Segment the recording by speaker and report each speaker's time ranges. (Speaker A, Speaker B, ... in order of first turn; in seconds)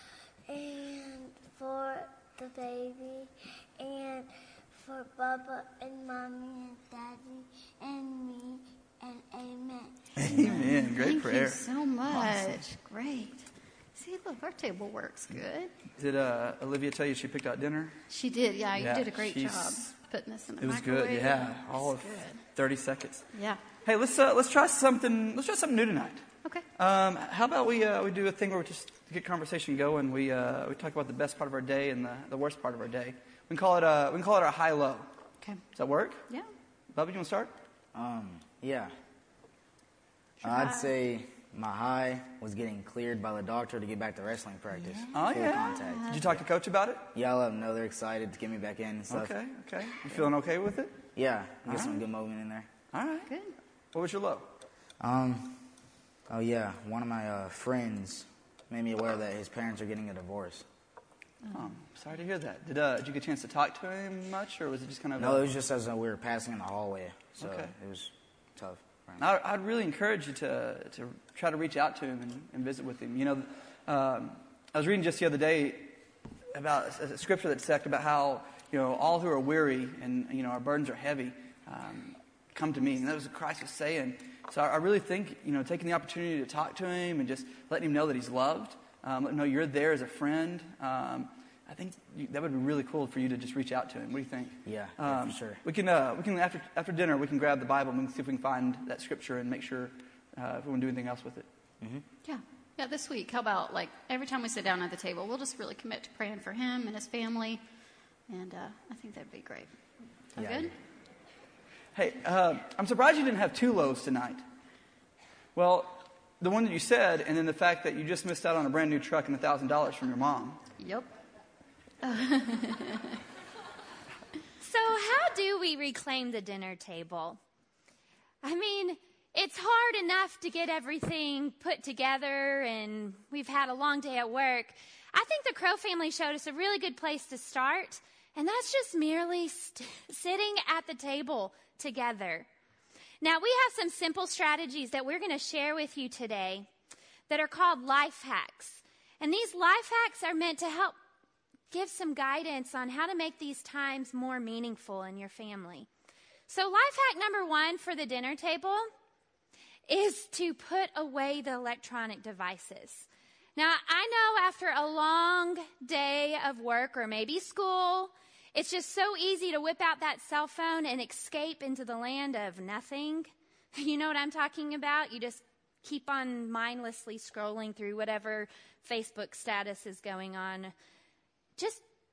Speaker A: 0.5-10.0
Speaker B: 10.2-12.6, 15.9-18.0, 18.8-19.9, 20.6-23.3, 23.8-35.1, 35.7-36.2, 36.9-37.5, 45.1-47.1, 49.1-51.0, 51.6-52.0, 52.9-53.3, 53.9-54.5, 61.5-65.5, 67.4-67.8, 69.2-76.0, 76.5-101.5, 111.9-114.5, 115.5-120.6
Speaker C: 10.4-15.7, 18.1-22.5, 23.3-23.7, 40.5-40.9, 45.5-46.3, 53.3-53.5, 102.2-107.6, 108.3-109.8, 110.3-110.8, 120.8-121.1, 122.0-123.2
Speaker D: 37.9-39.0, 40.4-46.2, 47.1-49.4, 51.1-52.7, 55.0-55.7, 56.3-60.7, 65.2-69.2, 94.7-95.6, 101.8-102.0, 110.3-110.7
Speaker E: 124.6-127.4, 128.4-142.5, 143.2-146.7, 147.3-151.0, 151.7-155.9, 156.5-158.9, 159.9-180.7, 181.6-181.8